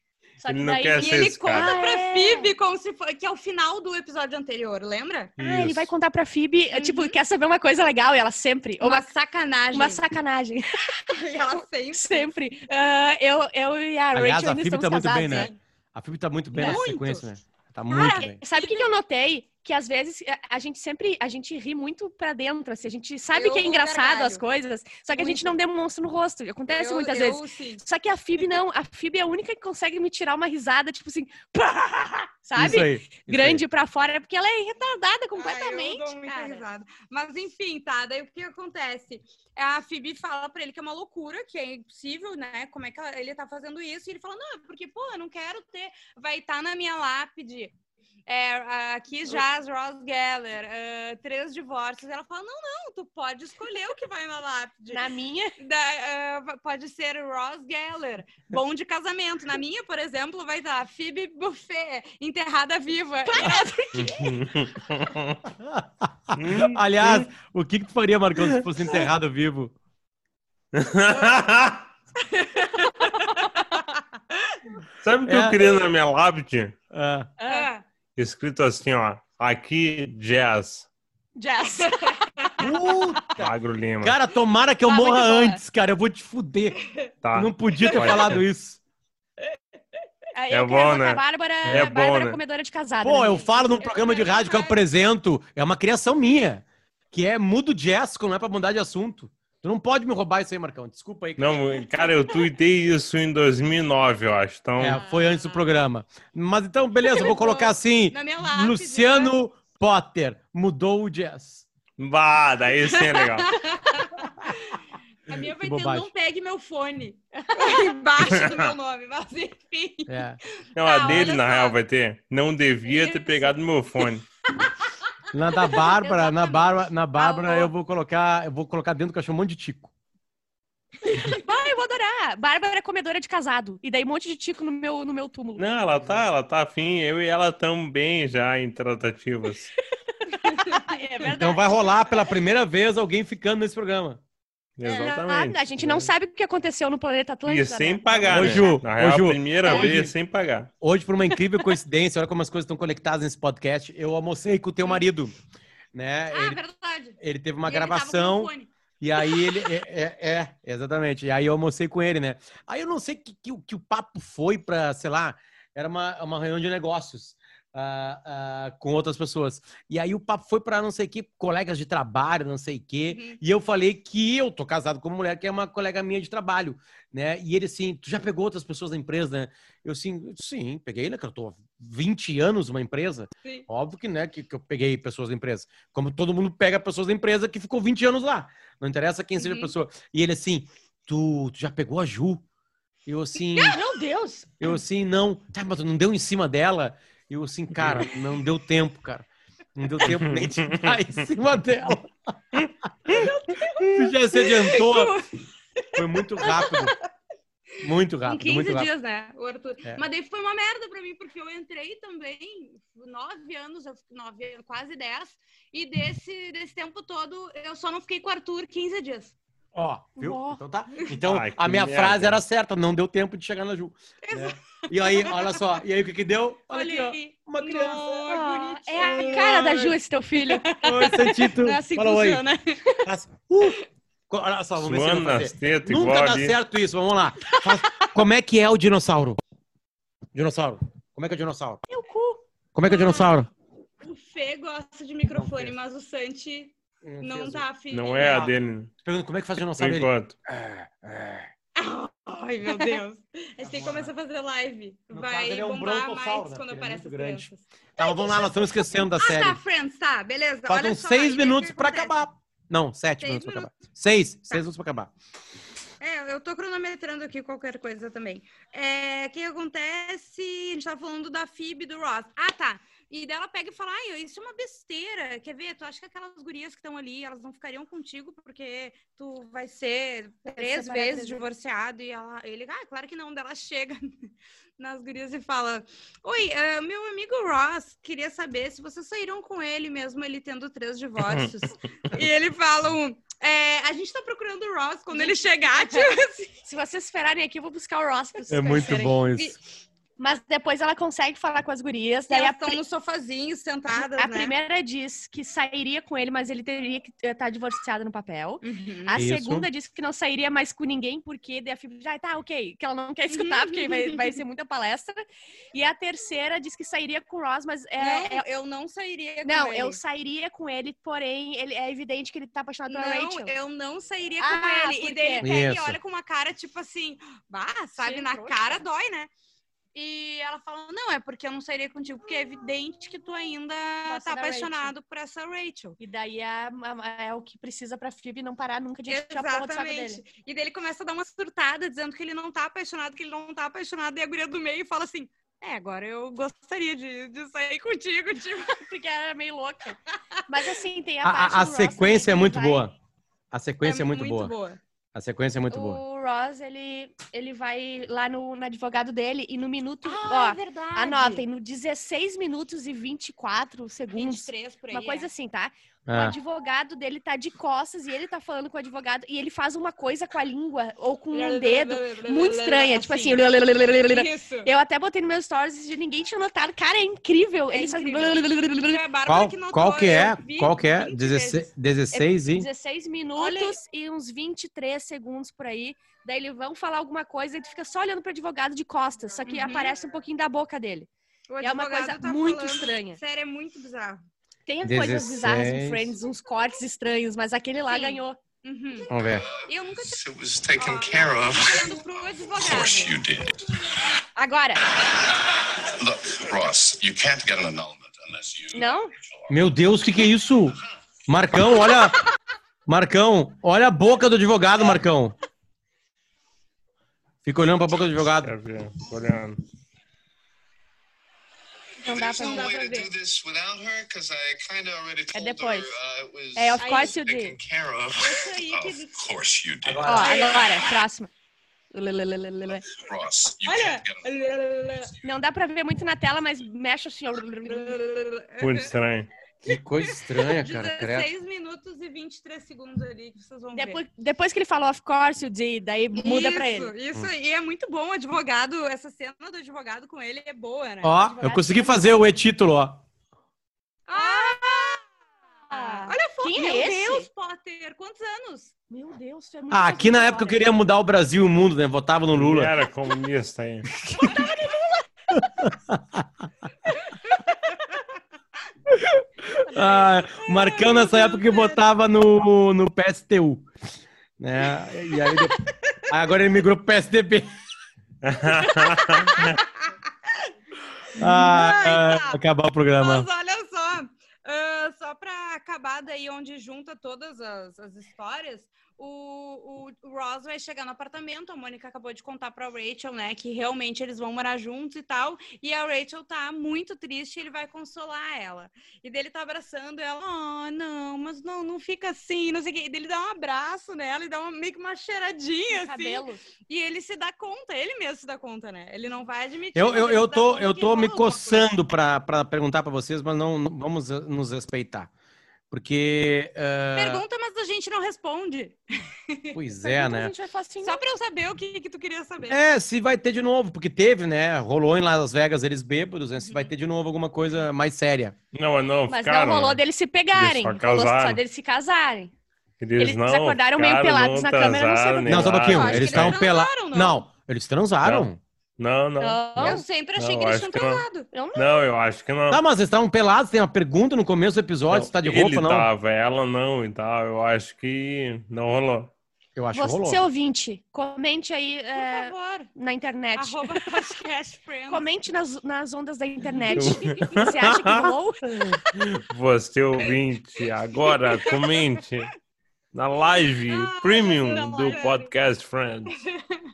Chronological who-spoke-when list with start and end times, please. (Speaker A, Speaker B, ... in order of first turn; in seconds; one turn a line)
Speaker A: 0.4-2.5
Speaker B: 0.5-1.7
Speaker C: 1.0-5.3
Speaker A: 5.4-9.1
Speaker B: 5.4-5.8
Speaker C: 6.7-7.2
Speaker C: 8.8-10.0
Speaker A: 9.7-11.1
Speaker C: 11.1-12.3
Speaker A: 11.9-15.5
Speaker D: 14.1-18.4
Speaker C: 15.2-15.6
Speaker A: 16.6-16.8
Speaker C: 16.6-17.2
Speaker C: 17.9-18.9
Speaker A: 18.1-36.6
Speaker C: 23.3-24.4
Speaker C: 25.1-25.6
Speaker C: 26.7-27.8
Speaker D: 32.5-33.6
Speaker C: 35.4-47.7
Speaker C: 48.3-55.0
Speaker A: 54.9-55.5
Speaker C: 55.6-63.7
Speaker A: 63.3-64.5
Speaker B: 64.2-65.4
Speaker D: 65.6-69.7
Speaker B: 66.3-67.3
Speaker B: 70.7-71.9
Speaker C: 72.5-73.2
Speaker A: 72.6-73.8
Speaker B: 75.0-76.8
Speaker D: 75.2-75.7
Speaker D: 76.9-77.3
Speaker A: 77.4-77.7
Speaker C: 77.5-77.8
Speaker B: 78.2-80.9
Speaker A: 81.4-82.2
Speaker C: 81.8-82.7
Speaker D: 82.6-88.8
Speaker B: 83.4-84.2
Speaker A: 84.9-85.6
Speaker B: 87.2-88.4
Speaker C: 87.8-88.1
Speaker A: 90.3-93.8
Speaker B: 90.5-92.4
Speaker D: 91.7-91.9
Speaker D: 93.0-101.9
Speaker C: 93.5-94.8
Speaker B: 101.4-105.0
Speaker D: 104.8-111.7
Speaker A: 105.0-105.6
Speaker C: 107.0-109.3
Speaker B: 112.0-113.6
Speaker C: 112.8-121.8
Speaker D: 115.3-116.1
Speaker B: 118.2-118.7
Speaker D: 120.1-120.4
Speaker B: 120.8-124.2
Speaker C: 122.8-124.0
Speaker D: 125.3-129.9
Speaker C: 125.6-127.7
Speaker A: 131.1-135.7
Speaker B: 135.6-139.7
Speaker A: 140.2-141.8
Speaker D: 141.3-144.2
Speaker B: 144.8-146.1
Speaker A: 144.8-148.8
Speaker B: 147.4-150.7
Speaker D: 148.3-150.1
Speaker A: 149.6-149.9
Speaker D: 150.8-155.4
Speaker D: 155.9-156.6
Speaker C: 156.3-159.5
Speaker D: 157.2-192.4
Speaker C: 173.1-173.4
Speaker C: 189.4-189.7
Speaker D: 193.1-193.8
Speaker A: 193.6-194.6
Speaker D: 194.6-205.2
Speaker B: 197.8-198.1
Speaker B: 200.0-200.9
Speaker C: 203.1-207.1
Speaker D: 205.9-207.0
Speaker D: 207.8-208.9
Speaker C: 208.2-219.3
Speaker D: 219.7-228.3
Speaker A: 220.2-220.6
Speaker B: 221.2-222.4
Speaker C: 224.2-225.6
Speaker C: 226.7-233.0
Speaker A: 228.3-231.2
Speaker D: 229.0-229.8
Speaker D: 230.8-232.4
Speaker D: 233.1-239.4
Speaker B: 234.8-236.6
Speaker D: 240.3-241.8
Speaker A: 241.9-242.4
Speaker D: 242.8-243.5
Speaker C: 242.8-243.3
Speaker C: 244.0-248.5
Speaker D: 245.3-245.7
Speaker D: 247.0-247.7
Speaker B: 247.9-248.9
Speaker D: 248.2-251.5
Speaker B: 249.8-250.4
Speaker C: 251.8-262.2
Speaker D: 253.6-254.1
Speaker D: 255.1-259.6
Speaker D: 260.7-265.1
Speaker C: 263.2-263.8
Speaker C: 266.0-284.1
Speaker A: 280.5-281.4
Speaker C: 284.8-296.5
Speaker B: 291.2-291.5
Speaker A: 295.1-296.1
Speaker A: 296.6-299.2
Speaker D: 298.5-299.6
Speaker A: 300.2-302.8
Speaker C: 302.3-304.6
Speaker A: 303.9-318.4
Speaker C: 308.6-309.2
Speaker D: 309.2-309.7
Speaker C: 313.3-314.4
Speaker C: 318.0-320.0
Speaker A: 319.4-323.5
Speaker C: 322.9-329.3
Speaker A: 324.4-325.5
Speaker D: 325.4-326.0
Speaker A: 328.0-328.8
Speaker C: 329.9-336.0
Speaker A: 334.1-334.9
Speaker A: 336.0-340.2
Speaker C: 339.1-348.9
Speaker A: 348.7-352.8
Speaker D: 351.2-352.9
Speaker D: 353.5-354.5
Speaker C: 353.8-354.8
Speaker D: 355.1-356.0
Speaker A: 355.7-379.0
Speaker C: 360.0-361.4
Speaker C: 364.1-365.3
Speaker D: 366.1-366.4
Speaker C: 371.3-373.5
Speaker C: 374.0-374.7
Speaker C: 377.7-381.7
Speaker D: 379.3-382.7
Speaker A: 382.1-391.1
Speaker C: 383.4-383.8
Speaker C: 389.5-389.9
Speaker C: 391.5-394.2
Speaker A: 391.6-393.2
Speaker A: 394.7-398.4
Speaker D: 394.8-396.1
Speaker C: 397.9-399.1
Speaker D: 399.1-399.4
Speaker E: 399.3-403.6
Speaker C: 399.7-400.2
Speaker C: 400.8-403.1
Speaker A: 404.4-404.8
Speaker E: 404.9-409.6
Speaker A: 408.7-409.1
Speaker D: 409.5-410.8
Speaker D: 411.3-412.2
Speaker D: 412.9-415.4
Speaker D: 417.4-418.5
Speaker B: 418.4-419.6
Speaker A: 422.0-422.8
Speaker E: 422.1-430.5
Speaker C: 422.4-423.1
Speaker A: 425.3-425.9
Speaker A: 426.6-427.6
Speaker C: 426.8-427.1
Speaker C: 428.2-429.2
Speaker D: 429.8-430.6
Speaker A: 430.1-431.3
Speaker C: 430.2-430.7
Speaker A: 431.9-432.9
Speaker E: 432.8-434.3
Speaker C: 433.7-435.1
Speaker A: 435.2-438.0
Speaker C: 437.7-438.9
Speaker B: 438.6-439.3
Speaker D: 439.6-441.3
Speaker C: 439.7-444.0
Speaker A: 443.8-446.9
Speaker C: 446.1-451.3
Speaker D: 451.0-453.0
Speaker A: 451.3-452.2
Speaker C: 454.1-455.0
Speaker A: 454.1-454.9
Speaker A: 455.7-457.3
Speaker C: 455.7-458.7
Speaker A: 458.9-460.7
Speaker D: 459.7-462.7
Speaker B: 462.3-463.9
Speaker D: 464.1-464.5
Speaker C: 464.2-464.8
Speaker D: 465.3-466.2
Speaker C: 467.3-467.8
Speaker D: 468.9-473.7
Speaker C: 470.4-471.8
Speaker D: 474.4-477.5
Speaker C: 475.2-476.0
Speaker B: 478.2-479.6
Speaker C: 478.5-480.5
Speaker D: 481.2-483.3
Speaker C: 481.2-482.4
Speaker C: 483.0-511.7
Speaker A: 505.7-506.4
Speaker D: 509.8-515.1
Speaker D: 515.7-517.2
Speaker C: 517.0-519.6
Speaker D: 519.5-520.3
Speaker A: 519.8-521.0
Speaker C: 520.8-522.6
Speaker D: 522.5-528.4
Speaker C: 526.4-526.7
Speaker B: 528.5-529.8
Speaker A: 529.1-532.3
Speaker B: 530.4-531.4
Speaker B: 532.8-536.4
Speaker A: 533.0-535.7
Speaker D: 535.3-538.4
Speaker C: 535.7-537.2
Speaker B: 538.0-541.0
Speaker A: 539.2-539.9
Speaker C: 539.6-541.3
Speaker A: 541.3-541.8
Speaker B: 541.5-542.6
Speaker D: 542.5-545.9
Speaker B: 544.9-549.1
Speaker D: 549.6-550.2
Speaker A: 549.7-554.0
Speaker C: 552.0-552.7
Speaker C: 553.4-555.1
Speaker A: 554.9-558.4
Speaker B: 556.8-562.3
Speaker C: 556.8-557.6
Speaker C: 561.0-562.0
Speaker B: 562.9-566.1
Speaker C: 563.6-565.3
Speaker C: 566.1-566.6